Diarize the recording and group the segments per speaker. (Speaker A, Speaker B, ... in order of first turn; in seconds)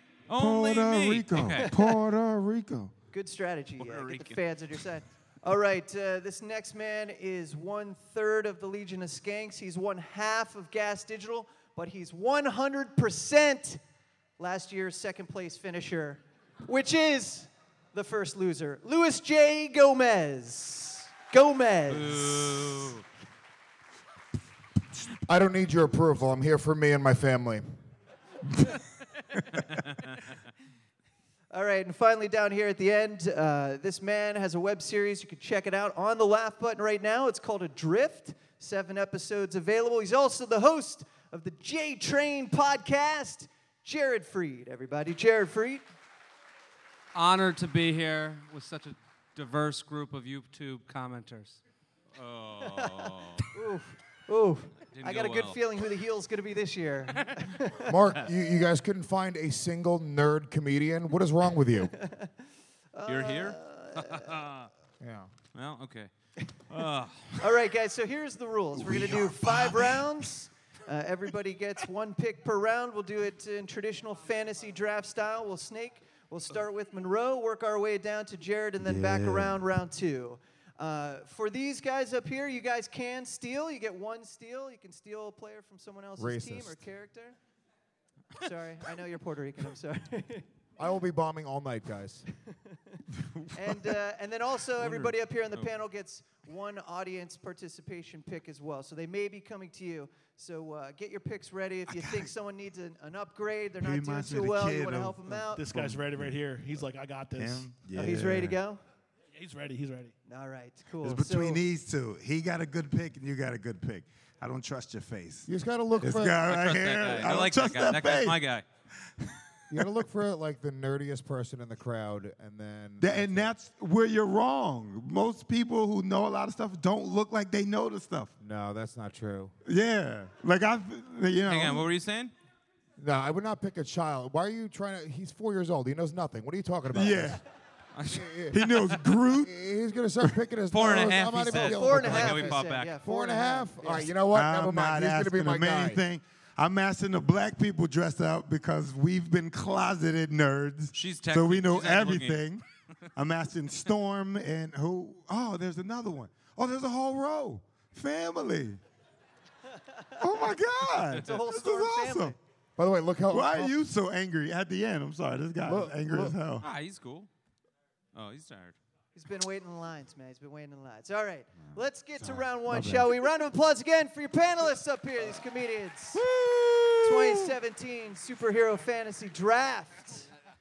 Speaker A: 0.3-1.7, 3.8-4.4, 21.9-23.0, 52.2-53.5, 54.9-55.6, 63.1-64.7, 65.5-66.1, 66.7-67.6, 116.5-118.6, 131.4-132.3, 137.9-138.8, 140.7-142.9, 150.9-152.4, 166.6-167.3, 168.1-168.8
Speaker B: 0.3-2.9, 68.7-70.0, 78.8-79.6, 93.2-93.6, 94.8-95.1, 101.8-102.3, 103.8-106.3, 107.3-108.6, 111.0-115.5, 116.0-118.4, 123.0-128.3, 129.7-131.9, 136.9-137.4, 138.5-139.5, 144.3-152.6, 153.2-158.8, 160.2-162.3, 163.3-166.7, 171.6-173.2, 176.1-177.6
Speaker C: 1.5-1.9, 3.1-13.8, 14.4-22.9, 31.5-45.8, 52.6-58.0, 62.0-62.3, 62.9-64.4, 67.4-87.4, 88.4-90.5, 92.5-93.0, 93.5-105.7, 107.9-108.8, 110.3-111.6, 141.5-144.2, 161.1-162.4, 169.1-176.2, 177.0-180.3
Speaker D: 25.3-27.6, 57.9-61.9, 65.0-65.3, 86.2-86.8, 90.8-92.2, 115.5-116.4, 119.7-123.5, 128.4-129.5, 133.0-137.4, 138.1-138.6, 139.4-146.0, 162.8-163.7, 165.6-166.3
Speaker E: 47.1-51.6
Speaker F: 105.5-107.8, 109.3-110.1